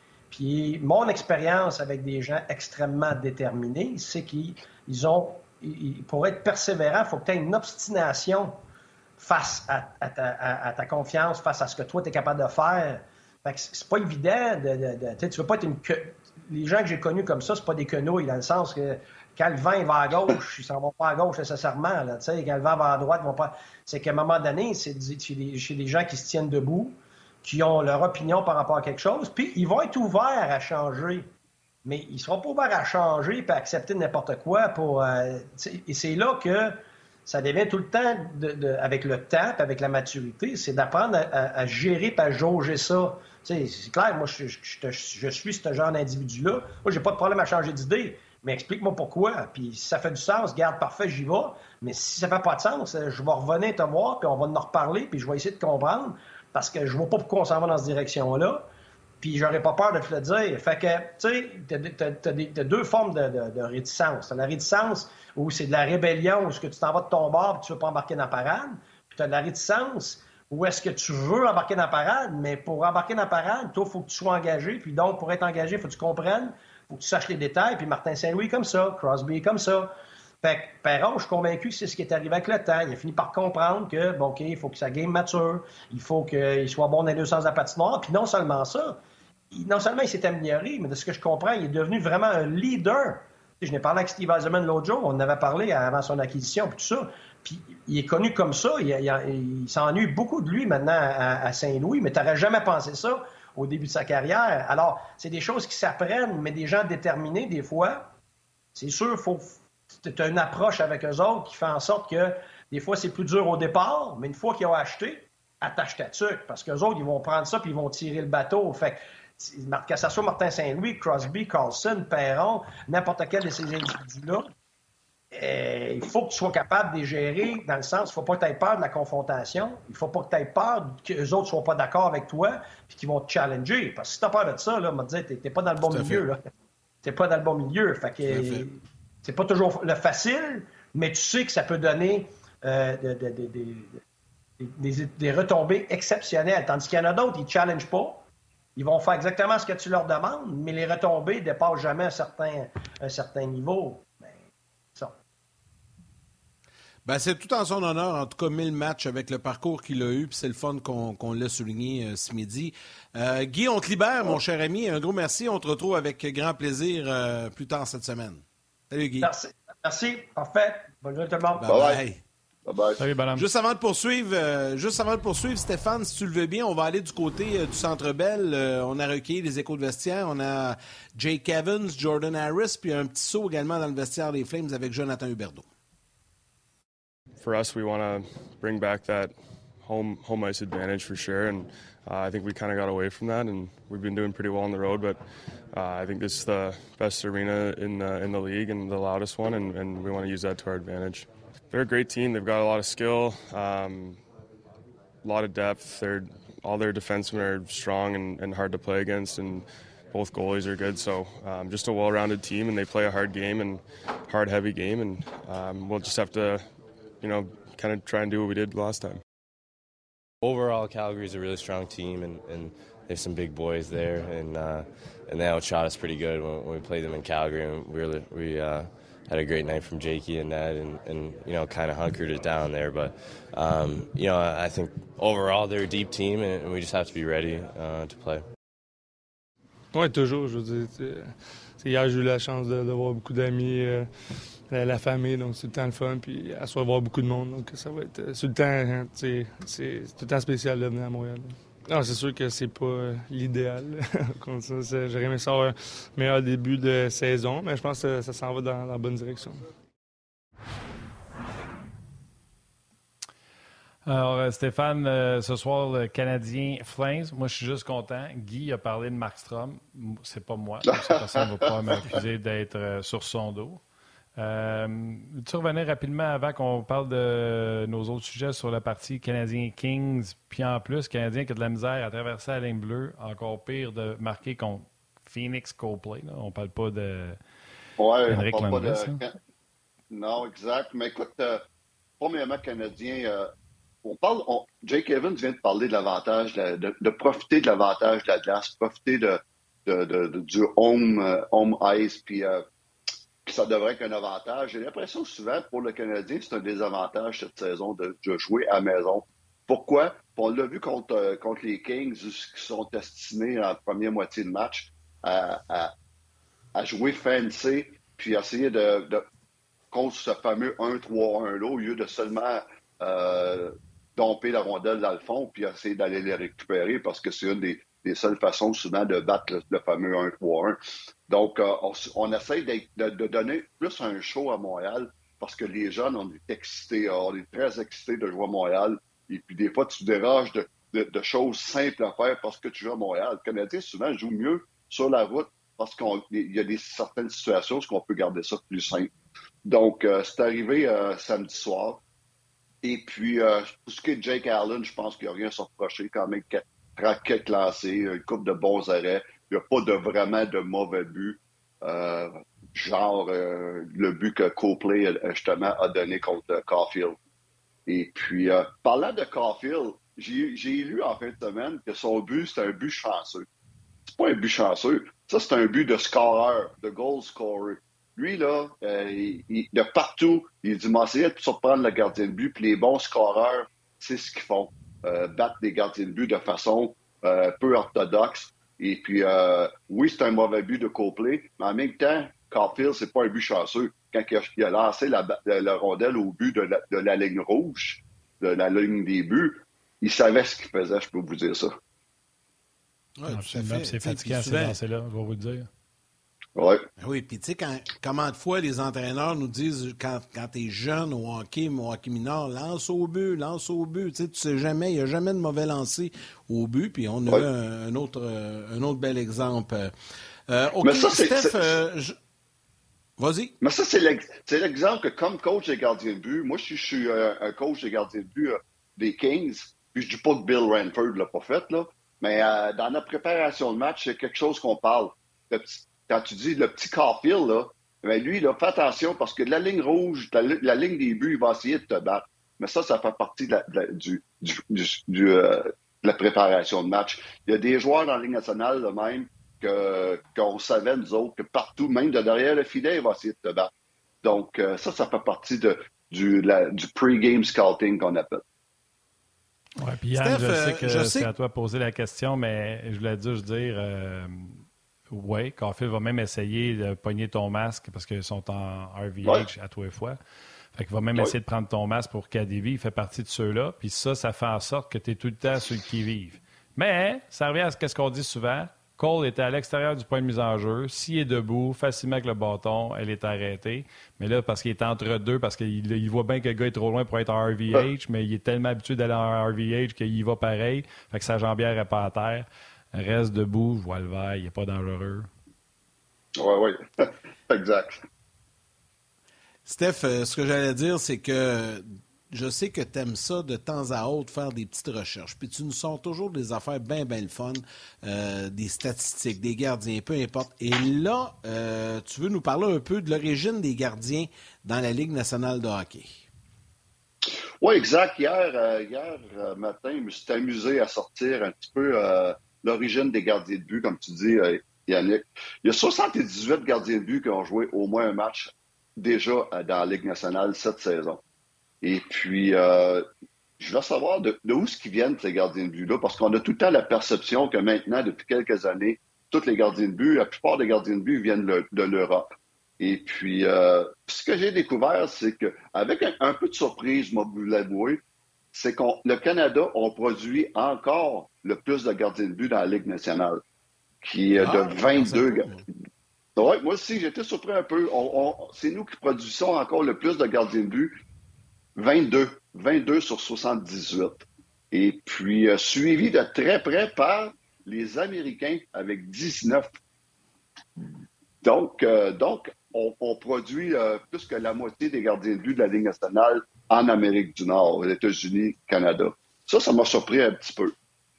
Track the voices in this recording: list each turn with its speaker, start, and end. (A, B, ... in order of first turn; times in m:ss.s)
0:00.3-0:08.6 A
0:09.2-0:31.3 A
0:31.8-0:58.6 A
0:59.2-1:29.0 A
1:29.5-1:48.1 A
1:48.7-2:04.5 A
2:05.3-2:16.4 A
2:15.8-2:16.2 B
2:17.0-2:24.0 A
2:18.2-2:18.6 B
2:24.6-2:28.2 A
2:28.8-2:34.4 A
2:37.0-2:49.3 B
2:49.2-2:51.7 A
2:51.6-2:52.2 B
2:51.7-2:52.0 C
2:52.6-2:53.0 C
2:53.0-2:53.4 D
2:53.4-3:05.7 B
3:07.4-3:15.2 E
3:15.7-3:24.2 E
3:25.2-3:36.6 E
3:37.2-3:39.2 E
3:40.4-3:58.4 F
3:59.9-4:19.6 G
4:24.0-4:33.8 D
4:30.9-4:32.1 C
4:34.4-4:47.4 D
4:48.0-4:49.3 C
4:48.3-4:49.2 D
4:50.1-4:51.6 C
4:52.2-4:53.5 C
4:54.0-5:02.6 C
5:03.4-5:15.9 C
5:16.7-5:19.2 C
5:19.9-5:49.1 C
5:49.6-5:52.0 C
5:52.8-6:07.2 C
6:07.9-6:13.4 C
6:14.1-6:41.7 C
6:43.2-6:44.8 B
6:43.3-6:45.7 D
6:46.6-6:46.8 C
6:47.0-6:59.9 B
7:00.5-7:02.2 B
7:00.8-7:01.8 C
7:03.2-7:03.5 B
7:03.6-7:33.7 C
7:34.2-7:38.4 C
7:39.8-7:50.2 D
7:40.2-7:41.3 B
7:50.7-8:15.3 D
8:16.4-8:18.0 C
8:19.6-8:36.2 B
8:37.6-8:51.2 C
8:51.8-8:53.0 C
8:53.6-9:08.0 C
9:08.5-9:13.4 C
9:14.0-9:15.5 C
9:14.4-9:15.6 B
9:16.4-9:20.9 C
9:21.8-9:29.7 C
9:31.4-9:40.7 C